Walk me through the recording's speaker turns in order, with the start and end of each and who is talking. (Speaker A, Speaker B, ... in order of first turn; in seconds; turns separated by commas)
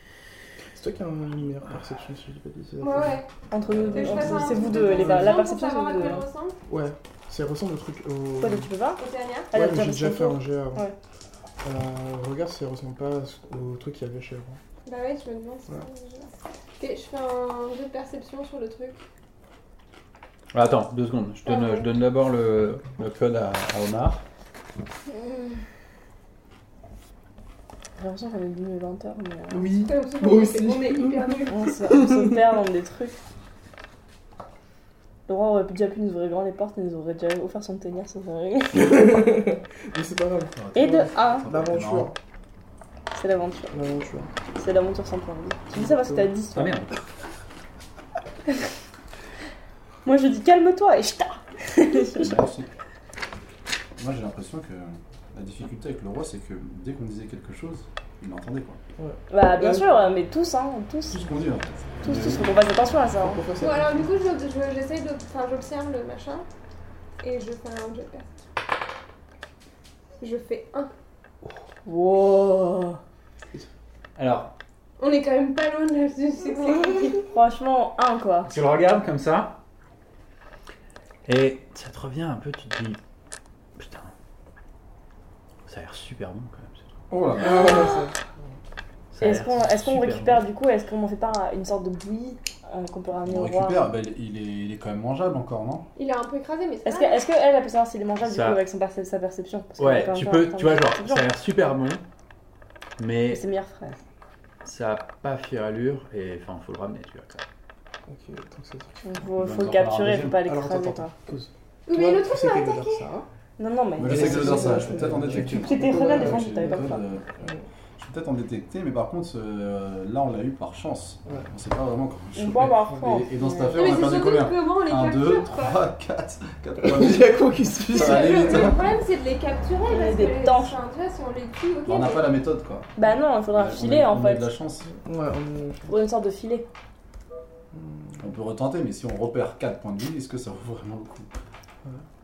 Speaker A: 0.8-5.4, Speaker B: 2.8-3.3, Speaker C: 3.5-6.3, Speaker B: 3.9-6.6, Speaker A: 6.7-8.7, Speaker C: 8.4-10.9, Speaker B: 9.0-9.5, Speaker A: 9.5-10.8, Speaker A: 11.6-14.6, Speaker B: 14.8-19.0, Speaker D: 20.5-24.2, Speaker C: 21.5-21.8, Speaker C: 25.1-25.5, Speaker C: 28.0-29.7, Speaker A: 29.5-32.4, Speaker B: 29.9-31.7, Speaker C: 31.5-33.2, Speaker C: 35.3-39.0, Speaker A: 38.7-42.2, Speaker E: 40.5-42.1, Speaker C: 40.8-41.5, Speaker C: 43.1-43.8, Speaker A: 43.7-44.3, Speaker C: 44.5-46.8, Speaker A: 45.7-46.3, Speaker D: 46.5-47.0, Speaker C: 50.0-52.4, Speaker E: 52.0-52.7, Speaker E: 54.0-58.8, Speaker A: 59.0-60.0, Speaker C: 59.3-61.3, Speaker E: 61.1-62.5, Speaker C: 62.0-63.4, Speaker A: 63.2-64.1, Speaker B: 63.6-66.5, Speaker B: 67.2-68.4, Speaker B: 70.2-70.9, Speaker C: 71.9-73.0, Speaker D: 74.2-74.5, Speaker B: 75.0-77.3, Speaker C: 77.3-78.5, Speaker D: 78.5-79.6, Speaker D: 81.3-83.0, Speaker D: 83.8-84.1, Speaker D: 85.7-86.9, Speaker E: 87.1-88.0, Speaker A: 87.4-88.3, Speaker C: 87.4-88.0, Speaker D: 89.1-90.4, Speaker C: 89.2-93.9, Speaker E: 93.3-95.9, Speaker B: 96.0-97.2, Speaker C: 96.8-101.3, Speaker D: 98.2-98.6, Speaker D: 99.8-102.0, Speaker D: 103.0-103.4, Speaker C: 103.3-104.0, Speaker D: 104.7-107.4, Speaker A: 108.1-109.3, Speaker C: 109.0-111.2, Speaker E: 109.3-110.5, Speaker A: 110.5-113.3, Speaker B: 111.9-113.0, Speaker C: 113.6-117.0, Speaker E: 114.0-128.9, Speaker A: 114.0-116.9, Speaker C: 122.3-123.5, Speaker A: 122.9-124.0, Speaker B: 123.7-125.8, Speaker A: 126.8-128.8, Speaker B: 127.9-132.3, Speaker C: 129.9-130.8, Speaker E: 131.9-132.9, Speaker C: 133.0-134.5, Speaker E: 133.5-134.9, Speaker A: 134.9-135.9, Speaker C: 135.9-136.7, Speaker A: 137.7-138.2, Speaker E: 138.2-141.3